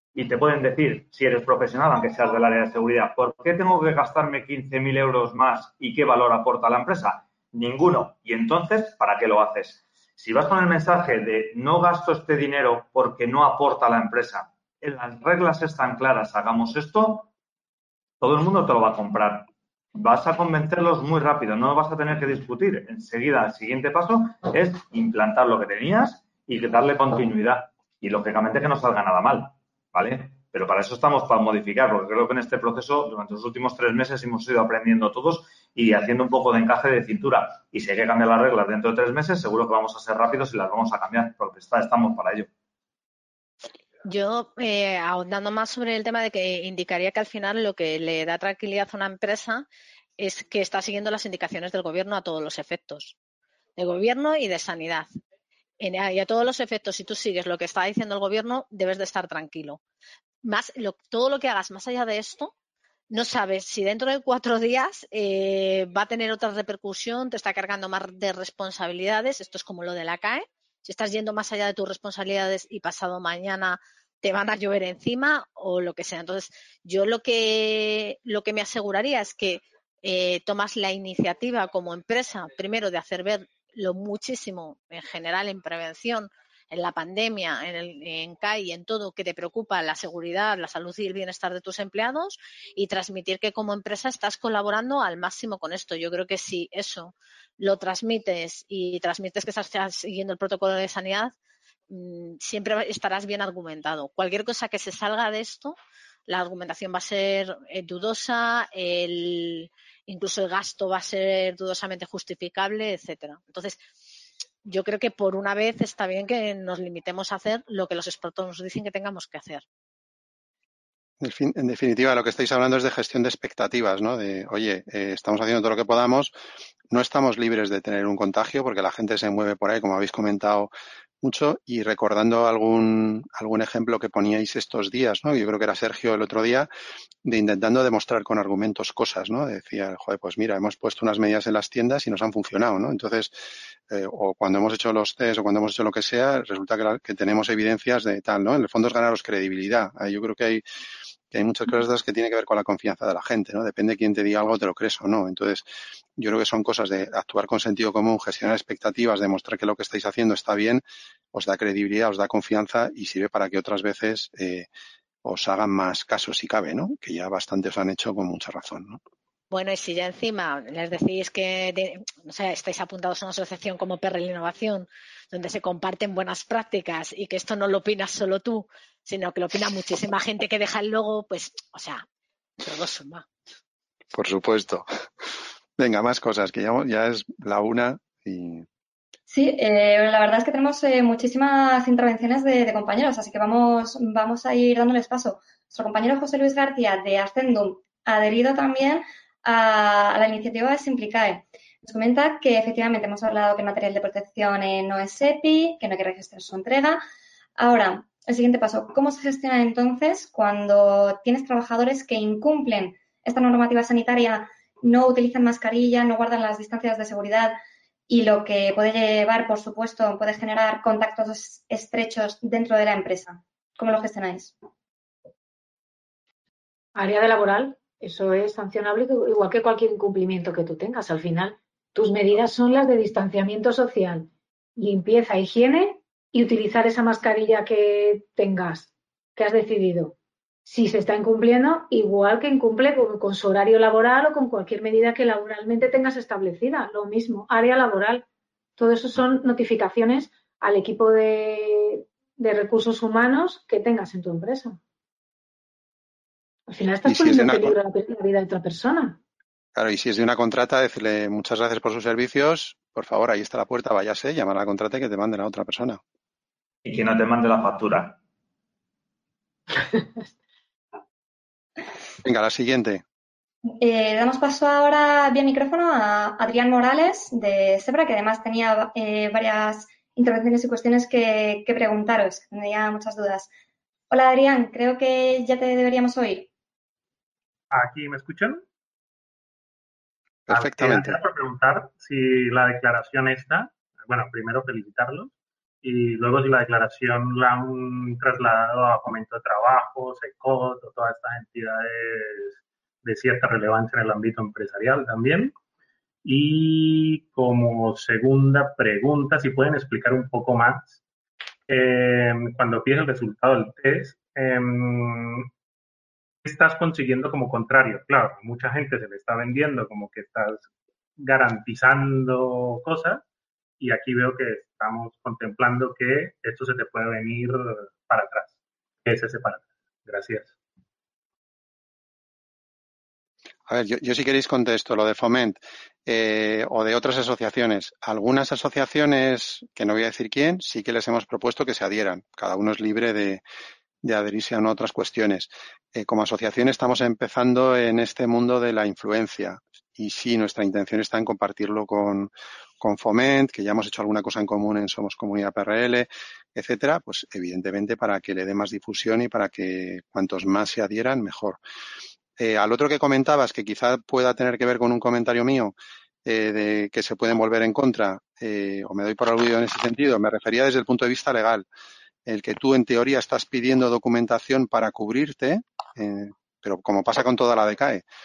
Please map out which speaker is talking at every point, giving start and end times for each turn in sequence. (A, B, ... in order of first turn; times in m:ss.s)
0:00.1-0:17.3 A
0:18.2-0:42.5 A
0:44.0-0:49.7 B
0:50.2-0:53.2 B
0:53.8-0:55.1 B
0:55.8-0:59.8 B
1:00.4-1:02.5 B
1:03.1-1:41.3 B
1:41.9-1:45.8 B
1:46.3-1:53.8 B
1:54.6-1:59.6 B
2:01.2-2:06.3 C
2:06.9-2:10.7 C
2:11.2-2:16.7 C
2:17.2-2:30.6 C
2:31.3-2:35.7 C
2:36.2-2:44.7 C
2:45.2-2:49.0 C
2:49.5-3:02.0 B
3:02.6-3:03.3 B
3:04.1-3:04.9 C
3:05.8-3:08.6 C
3:09.3-3:27.0 D
3:27.6-3:37.6 D
3:38.1-3:44.5 D
3:47.0-4:00.1 E
4:00.7-4:08.2 E
4:08.8-4:14.8 E
4:16.7-4:19.2 E
4:17.0-4:17.7 C
4:19.8-4:26.0 C
4:26.8-4:28.2 A
4:32.2-4:33.0 C
4:33.8-4:43.5 D
4:44.1-4:46.5 D
4:47.7-4:48.6 F
4:50.5-4:51.2 C
4:50.5-5:05.6 F
5:06.2-5:11.0 F
5:11.7-5:15.5 F
5:16.4-5:20.7 F
5:21.2-5:23.2 F
5:23.8-5:30.5 F
5:33.7-5:43.4 C
5:44.0-6:01.6 C
6:02.4-6:11.7 C
6:12.3-6:18.0 C